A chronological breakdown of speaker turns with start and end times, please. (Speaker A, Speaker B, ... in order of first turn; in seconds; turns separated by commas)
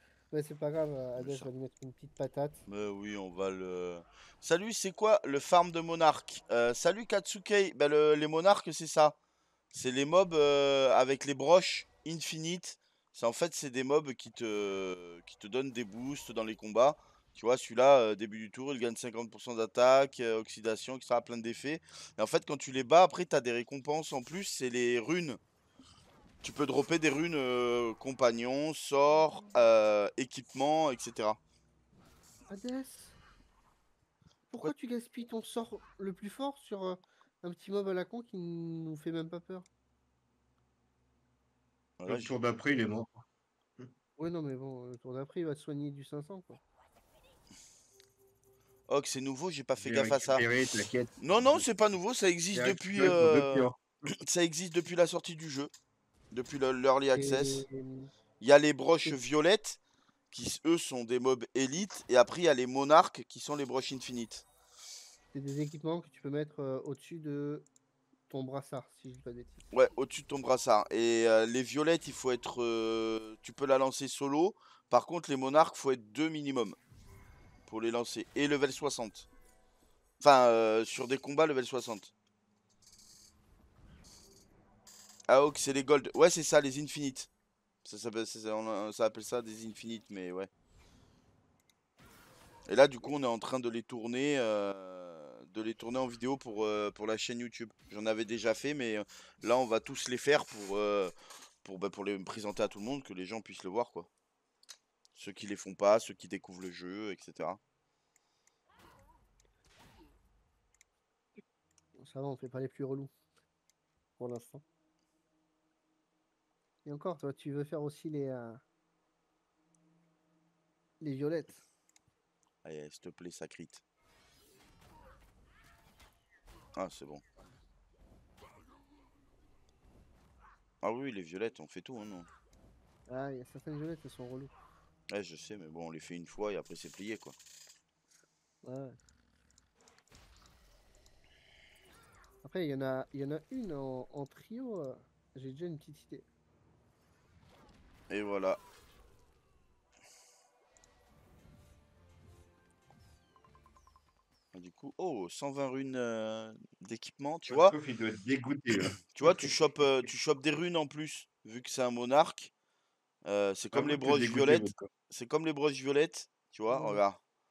Speaker A: 0.3-2.6, Speaker B: 1.1-1.5, Speaker B: 2.7-9.1, Speaker B: 9.7-25.4, Speaker B: 26.4-31.4, Speaker A: 32.5-33.2, Speaker A: 34.5-39.7, Speaker B: 42.0-42.3, Speaker C: 42.1-43.2, Speaker A: 44.2-46.6, Speaker B: 48.9-50.4, Speaker C: 49.8-51.6, Speaker B: 51.2-53.7, Speaker C: 52.5-53.8, Speaker B: 54.3-55.7, Speaker B: 56.3-57.6, Speaker A: 57.1-58.1, Speaker B: 58.4-59.8, Speaker B: 60.3-64.4, Speaker A: 65.3-67.7, Speaker A: 68.3-69.6, Speaker B: 69.7-76.8, Speaker B: 77.7-79.3, Speaker B: 80.2-82.1, Speaker B: 85.3-87.3, Speaker B: 87.8-90.5, Speaker B: 92.7-104.1, Speaker B: 105.1-107.6, Speaker A: 112.0-113.1, Speaker A: 114.2-114.6, Speaker A: 116.8-118.6, Speaker A: 121.0-121.5, Speaker B: 122.6-123.8, Speaker B: 126.8-127.2, Speaker B: 130.8-132.3, Speaker A: 133.1-134.5, Speaker B: 135.1-137.3, Speaker A: 138.6-138.9, Speaker A: 142.4-146.2, Speaker B: 148.1-148.6, Speaker B: 154.5-157.7, Speaker C: 157.5-159.5, Speaker B: 159.1-162.5, Speaker B: 163.2-167.2, Speaker C: 163.7-164.9, Speaker A: 166.7-167.0